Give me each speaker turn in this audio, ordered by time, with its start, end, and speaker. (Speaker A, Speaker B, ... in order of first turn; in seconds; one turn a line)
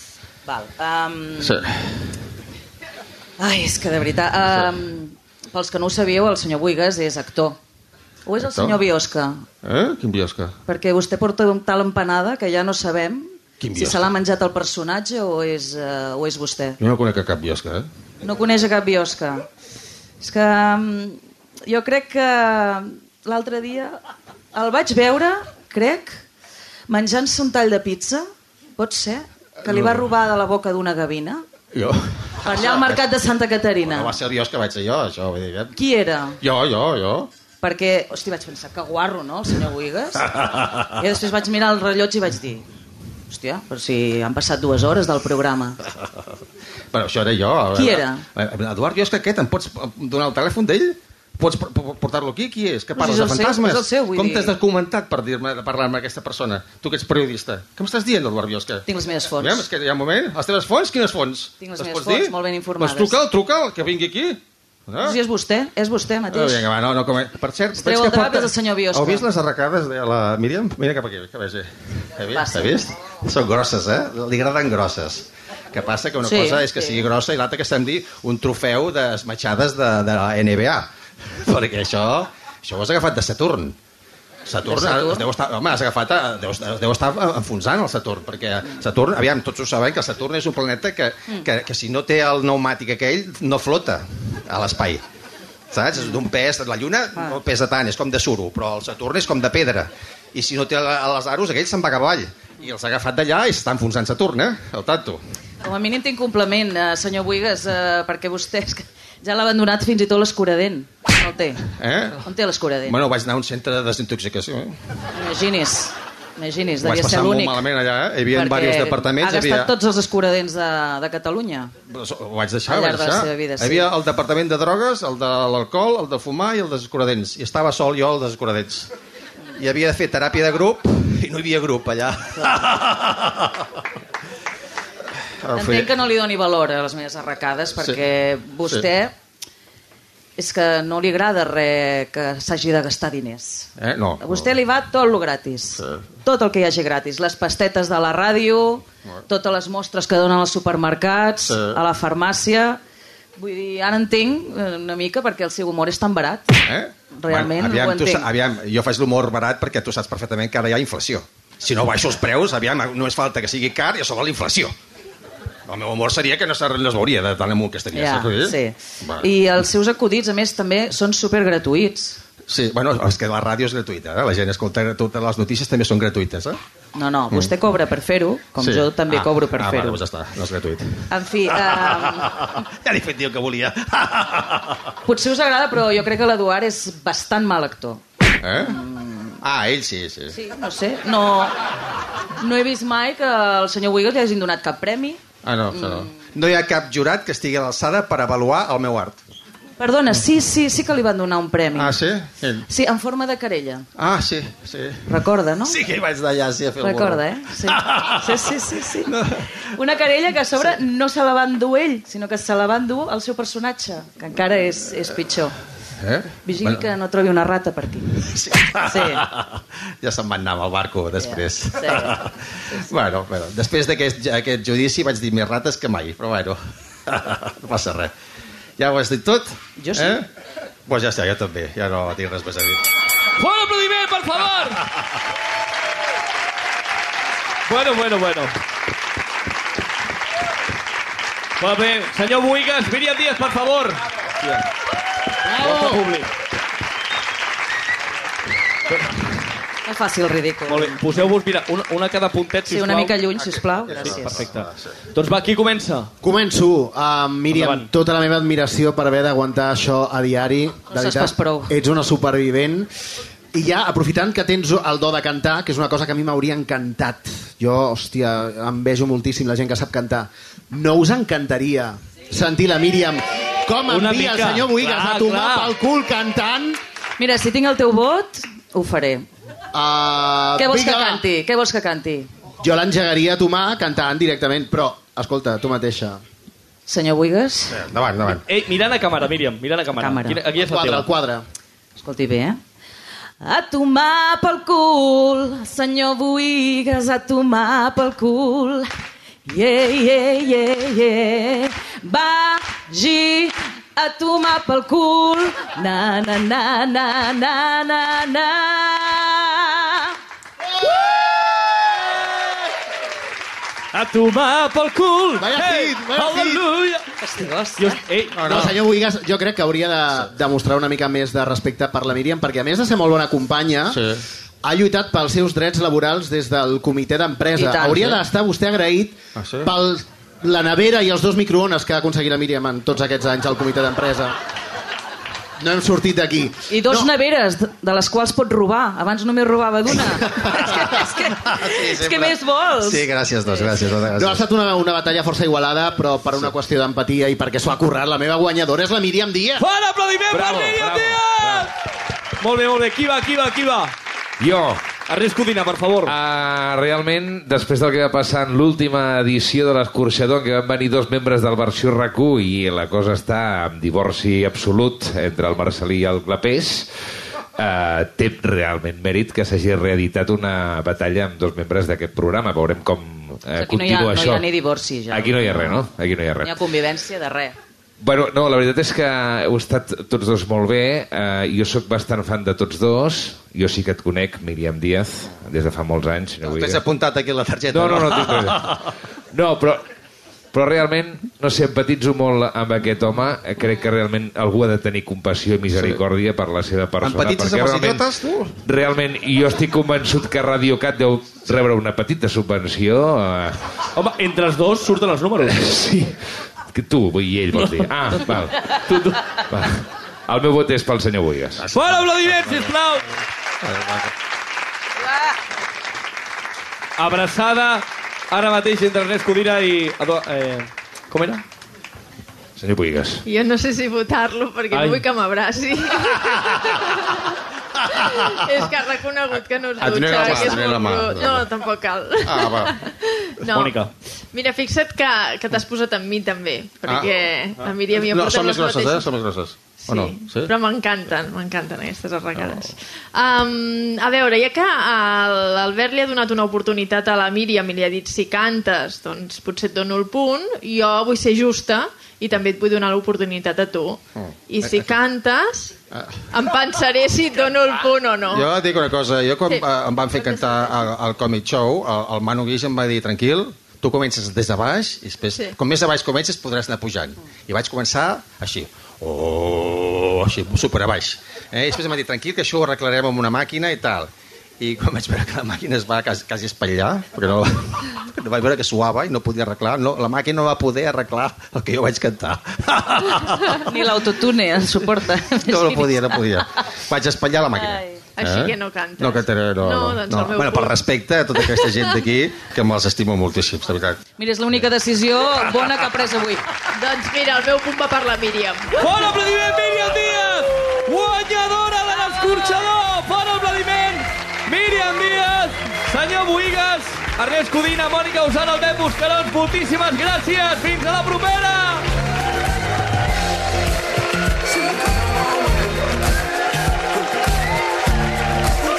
Speaker A: 0.5-1.6
Speaker B: 1.4-1.9
Speaker A: 3.4-7.6
Speaker A: 8.3-9.4
Speaker B: 8.4-8.8
Speaker B: 9.6-10.6
Speaker A: 10.7-16.8
Speaker B: 13.6-14.1
Speaker B: 16.8-17.9
Speaker A: 18.2-19.4
Speaker A: 20.2-24.0
Speaker A: 24.5-26.2
Speaker A: 26.9-28.3
Speaker A: 28.8-31.4
Speaker B: 29.7-30.0
Speaker B: 31.7-33.0
Speaker A: 32.4-34.1
Speaker B: 33.9-35.8
Speaker A: 35.7-36.4
Speaker B: 36.4-37.3
Speaker A: 37.6-40.3
Speaker A: 40.8-42.6
Speaker A: 43.3-45.8
Speaker B: 46.9-58.8
Speaker A: 47.8-48.2
Speaker A: 53.0-54.6
Speaker A: 58.9-59.7
Speaker B: 59.4-65.2
Speaker A: 61.6-63.2
Speaker A: 65.0-66.7
Speaker B: 66.3-83.8
Speaker A: 67.7-69.3
Speaker A: 72.3-72.9
Speaker A: 76.2-77.0
Speaker B: 84.5-95.0
Speaker A: 84.7-85.3
Speaker B: 95.7-105.2
Speaker A: 105.6-111.6
Speaker B: 111.8-112.3
Speaker A: 112.2-113.0
Speaker B: 112.9-114.8
Speaker A: 115.1-117.6
Speaker B: 116.8-119.7
Speaker A: 118.3-121.7
Speaker B: 121.9-128.9
Speaker A: 122.7-123.9
Speaker B: 129.6-133.7
Speaker B: 135.4-135.9
Speaker A: 135.6-139.1
Speaker A: 140.4-152.8
Speaker B: 143.8-144.5
Speaker B: 151.4-151.8
Speaker A: 153.4-156.6
Speaker B: 156.7-164.7
Speaker A: 157.2-158.3
Speaker B: 165.7-169.3
Speaker A: 167.9-172.2
Speaker B: 172.5-176.6
Speaker A: 176.9-180.0
Speaker B: 178.6-184.9
Speaker A: 181.1-182.4
Speaker A: 185.0-188.0
Speaker B: 188.4-188.8
Speaker A: 188.6-189.4
Speaker B: 189.4-190.3
Speaker A: 190.3-191.5
Speaker A: 192.4-195.2
Speaker B: 195.4-199.2
Speaker A: 195.7-196.1
Speaker A: 199.8-201.9
Speaker B: 201.8-202.7
Speaker A: 202.7-203.9
Speaker B: 204.0-208.5
Speaker A: 205.1-205.8
Speaker A: 206.8-209.2
Speaker B: 209.1-209.3
Speaker A: 209.7-215.6
Speaker B: 216.0-216.8
Speaker A: 216.4-218.1
Speaker B: 218.2-228.1
Speaker A: 218.8-219.2
Speaker A: 221.2-222.9
Speaker B: 228.8-230.3
Speaker A: 229.8-230.2
Speaker B: 230.9-232.8
Speaker C: 233.4-234.9
Speaker C: 237.7-238.5
Speaker C: 241.6-244.7
Speaker C: 245.5-246.3
Speaker A: 249.8-251.0
Speaker C: 250.7-253.1
Speaker A: 252.7-254.4
Speaker B: 253.4-254.9
Speaker C: 254.0-256.1
Speaker D: 256.2-262.9
Speaker C: 257.5-257.9
Speaker A: 260.9-261.7
Speaker D: 263.5-276.8
Speaker C: 273.9-275.7
Speaker A: 277.2-279.2
Speaker D: 279.7-281.2
Speaker A: 280.6-282.3
Speaker D: 282.6-286.2
Speaker A: 286.9-287.8
Speaker B: 287.7-288.4
Speaker C: 288.2-291.1
Speaker A: 289.9-290.4
Speaker D: 290.6-291.4
Speaker A: 292.0-292.6
Speaker A: 293.4-298.9
Speaker A: 299.5-310.1
Speaker C: 313.9-317.1
Speaker D: 315.4-316.6
Speaker A: 317.2-318.0
Speaker C: 317.8-318.4
Speaker B: 318.3-318.8
Speaker D: 318.4-324.0
Speaker B: 323.9-324.2
Speaker D: 324.6-334.3
Speaker A: 327.6-328.2
Speaker B: 329.4-329.7
Speaker D: 335.6-337.1
Speaker A: 336.7-343.7
Speaker D: 340.0-340.5
Speaker B: 340.8-344.4
Speaker D: 344.1-349.7
Speaker C: 349.6-351.7
Speaker E: 350.3-351.7
Speaker C: 352.4-353.9
Speaker E: 354.4-354.8
Speaker C: 355.1-356.1
Speaker E: 356.1-366.9
Speaker E: 367.6-374.4
Speaker A: 373.6-375.9
Speaker E: 375.1-376.5
Speaker A: 376.4-377.6
Speaker E: 378.0-386.8
Speaker B: 386.4-388.9
Speaker E: 387.7-388.6
Speaker E: 389.3-389.8
Speaker E: 390.5-398.1
Speaker B: 395.7-396.0
Speaker B: 397.0-398.5
Speaker E: 398.6-403.6
Speaker C: 403.9-405.7
Speaker E: 405.5-406.1
Speaker E: 406.7-411.7
Speaker C: 407.5-409.4
Speaker B: 411.6-412.7
Speaker C: 411.7-413.1
Speaker B: 413.6-414.1
Speaker C: 417.0-421.4
Speaker E: 422.6-423.2
Speaker F: 423.3-427.4
Speaker C: 424.7-425.1
Speaker F: 427.9-439.1
Speaker B: 429.8-431.4
Speaker B: 432.2-432.7
Speaker C: 433.5-433.9
Speaker B: 437.6-440.5
Speaker F: 439.8-455.8
Speaker F: 456.3-458.5
Speaker B: 458.3-483.7
Speaker F: 459.5-460.6
Speaker A: 483.6-486.2
Speaker B: 485.4-494.0
Speaker A: 487.6-488.0
Speaker F: 488.2-490.8
Speaker F: 491.4-491.9
Speaker A: 494.2-496.5
Speaker F: 496.8-499.1
Speaker C: 498.8-511.9